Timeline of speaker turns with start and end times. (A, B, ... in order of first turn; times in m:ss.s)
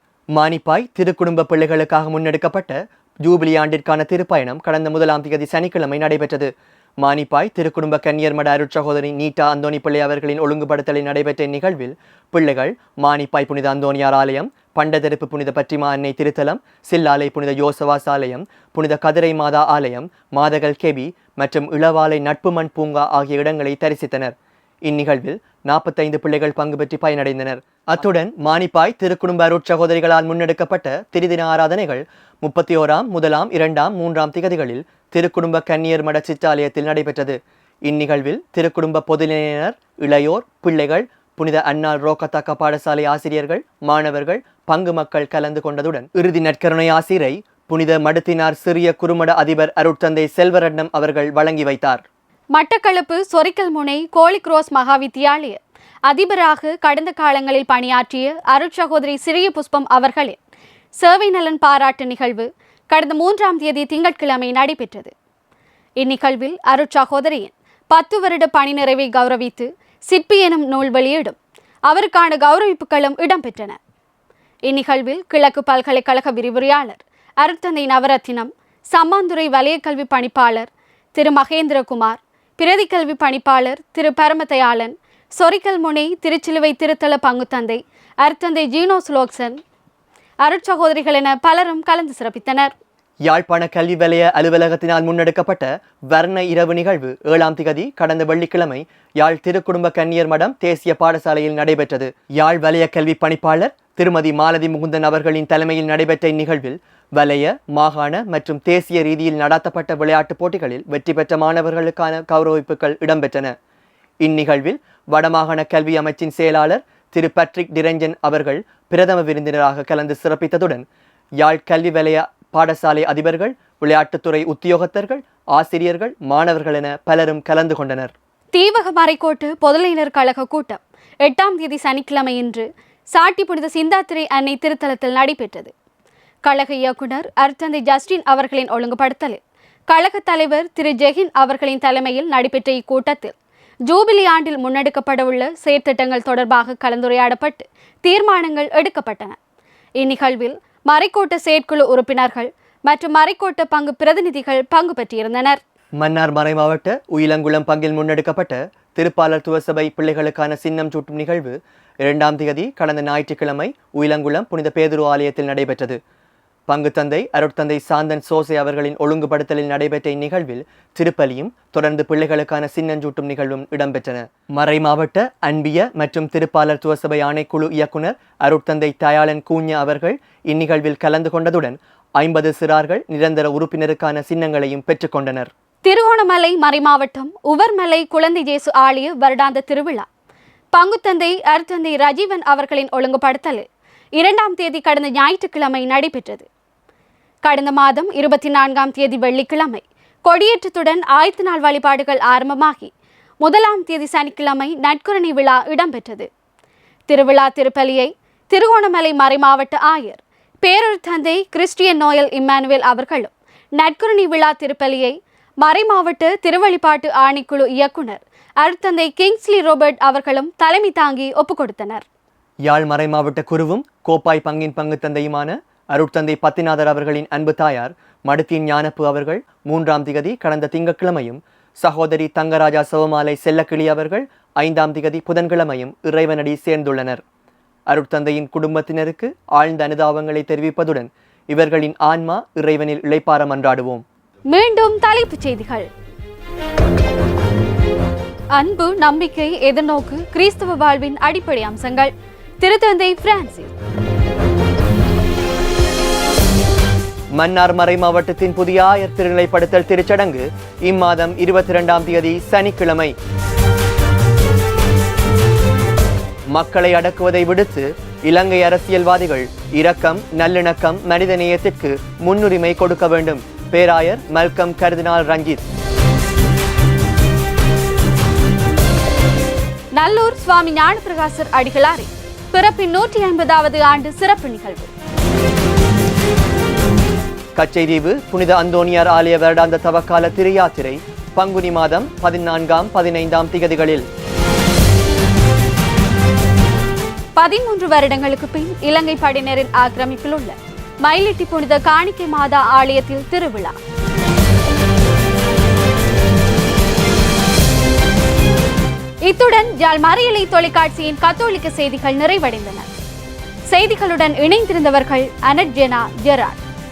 0:00.3-0:24.3 A
0:24.8-0:52.0 A
0:52.5-1:00.4 B
1:01.0-1:05.1 B
1:06.0-1:13.8 B
1:14.6-1:29.6 B
1:30.4-1:32.7 B
1:33.2-1:53.5 A
1:54.2-2:00.8 A
2:01.4-2:08.1 A
2:08.5-2:15.7 B
2:16.4-2:23.3 B
2:23.8-2:29.4 B
2:30.0-2:35.6 B
2:36.0-2:46.0 A
2:46.7-3:05.5 A
3:05.8-3:10.1 B
3:10.7-3:16.5 B
3:17.4-3:26.3 B
3:27.1-3:42.0 B
3:42.6-3:57.2 A
3:57.9-4:04.0 A
4:04.5-4:05.9 B
4:08.5-4:13.7 B
4:17.3-4:23.1 A
4:26.5-4:35.6 A
4:40.0-4:44.9 B
4:47.6-4:54.0 A
4:57.4-5:03.8 B
5:09.2-5:12.9 B
5:13.7-5:16.6 B